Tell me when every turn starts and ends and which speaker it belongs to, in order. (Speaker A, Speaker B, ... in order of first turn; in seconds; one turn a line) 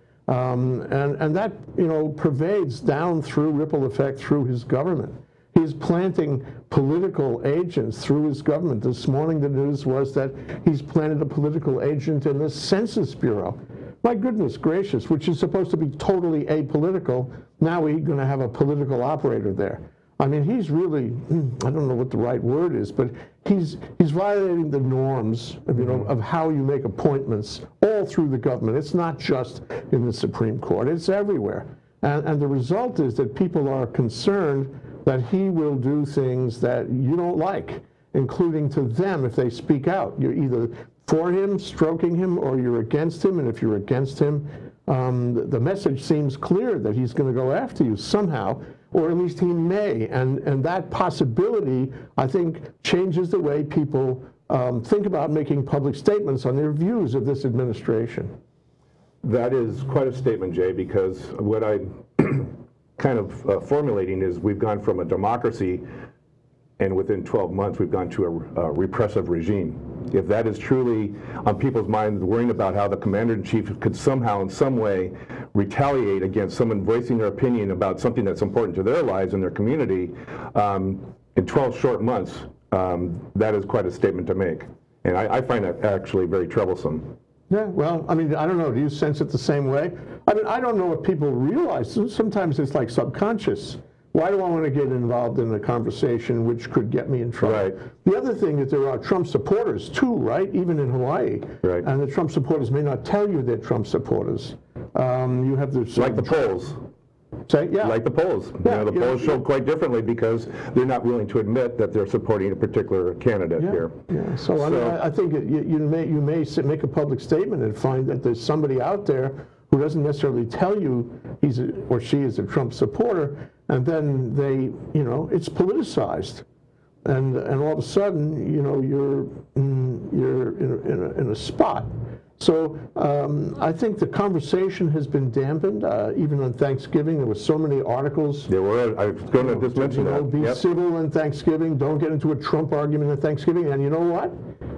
Speaker A: 0.3-58.3
Speaker B: 59.2-65.8
Speaker B: 66.8-87.1
Speaker A: 87.5-106.4
Speaker B: 97.4-97.8
Speaker B: 106.0-106.8
Speaker A: 107.5-108.0
Speaker B: 107.8-113.9
Speaker A: 108.6-109.4
Speaker A: 113.6-126.4
Speaker B: 114.5-115.0
Speaker A: 127.0-138.5
Speaker B: 138.5-140.6
Speaker A: 139.3-144.3